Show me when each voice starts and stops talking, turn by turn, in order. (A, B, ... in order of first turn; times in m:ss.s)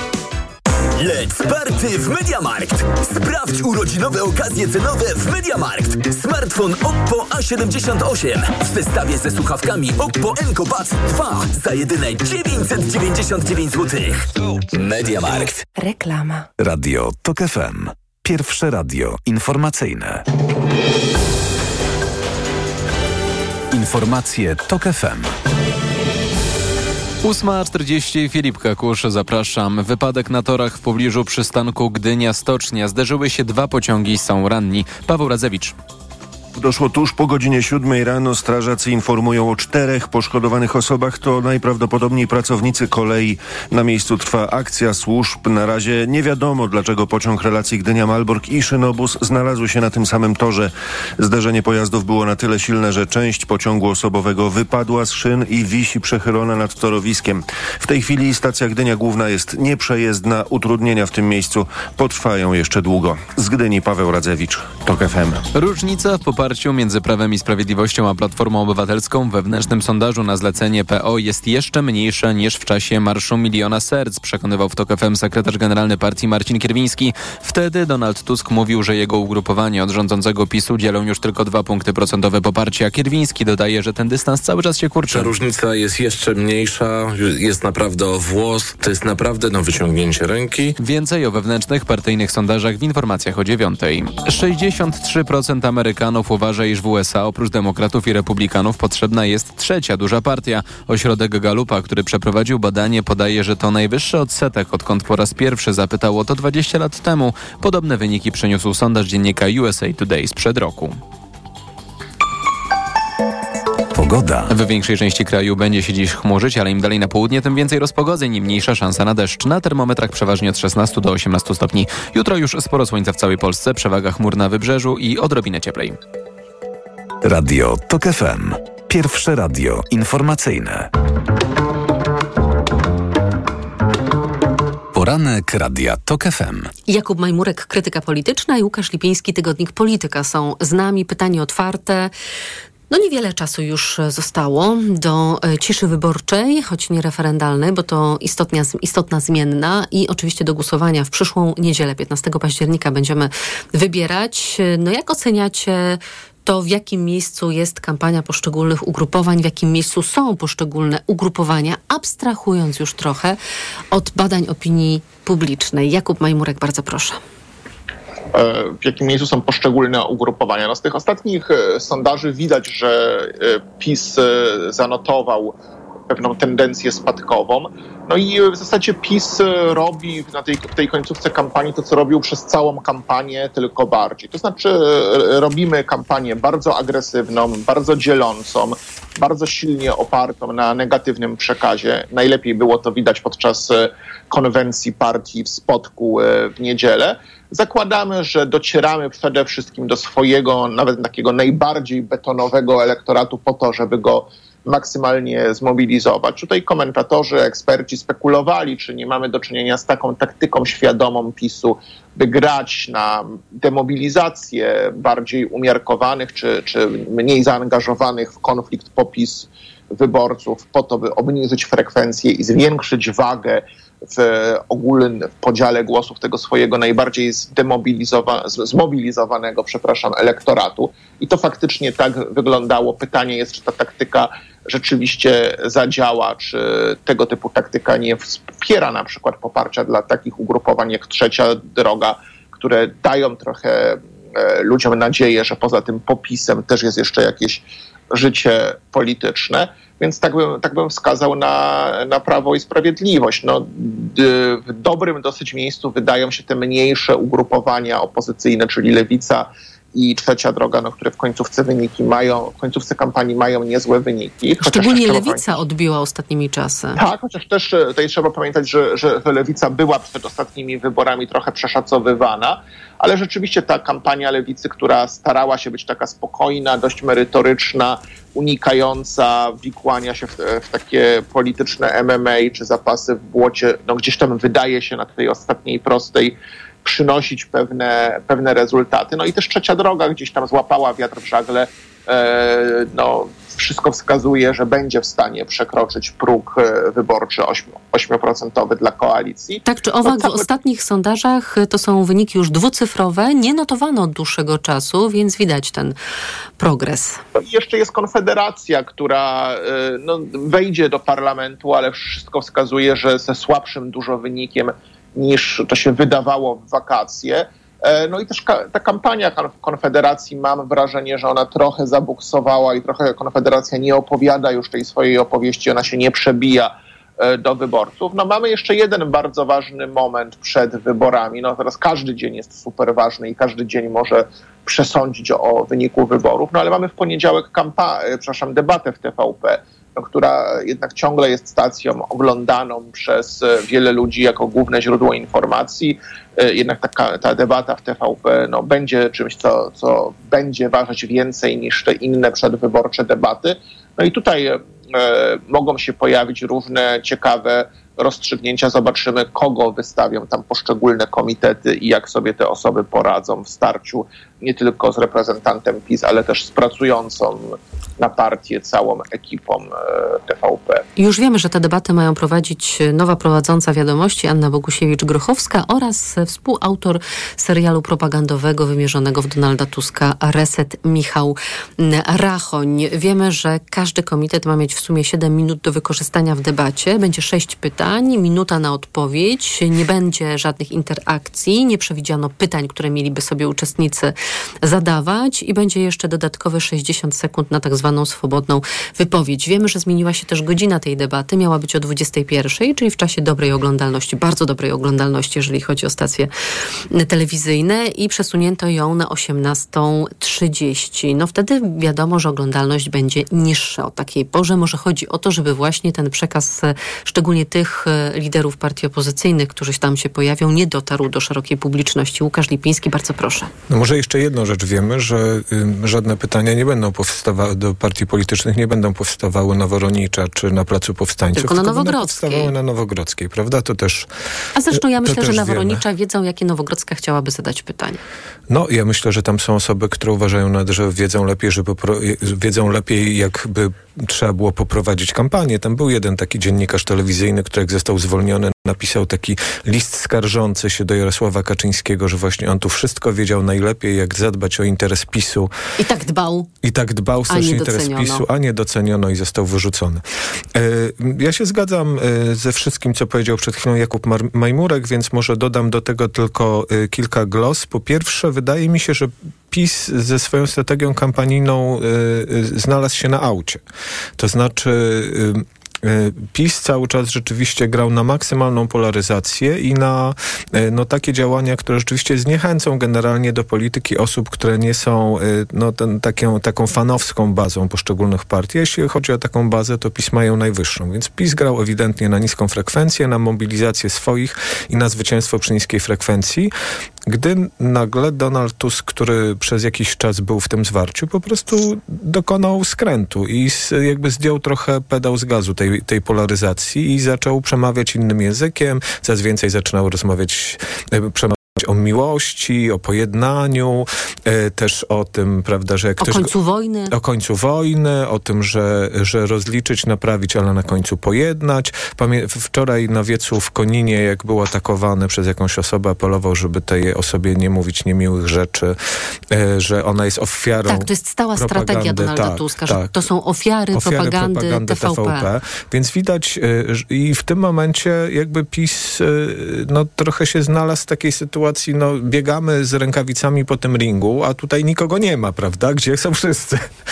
0:00.9-0:15.7 A
0:16.6-0:20.2 B
0:23.7-0:25.3 B
0:27.2-0:35.7 C
0:36.6-1:05.4 D
1:05.5-1:25.3 C
1:25.2-1:30.7 E
1:30.8-1:51.0 C
1:53.9-1:54.5 B
1:54.5-2:06.0 C
2:07.2-2:10.9 B
2:14.9-2:16.7 B
2:16.9-2:22.1 F
2:22.9-2:43.4 F
2:43.9-2:47.2 F
2:48.3-2:55.5 G
2:56.1-4:25.6 G
4:24.6-4:27.0 F
4:27.0-5:00.4 G
4:59.6-5:06.0 F
5:06.6-5:07.2 F
5:07.4-6:10.8 G
6:11.0-6:46.3 F
6:46.9-7:03.5 F
7:03.7-7:14.1 H
7:11.3-7:12.5 F
7:14.6-7:18.0 F
7:14.7-7:15.8 H
7:18.5-7:35.5 H
7:35.8-7:36.5 F
7:36.6-7:40.0 H
7:37.3-7:38.2 F
7:40.5-7:53.6 H
7:54.2-8:16.5 H
8:17.1-8:36.3 H
8:36.0-8:36.9 F
8:36.9-8:48.8 H
8:49.3-8:52.9 H
8:50.7-8:55.2 F
8:53.7-9:06.6 H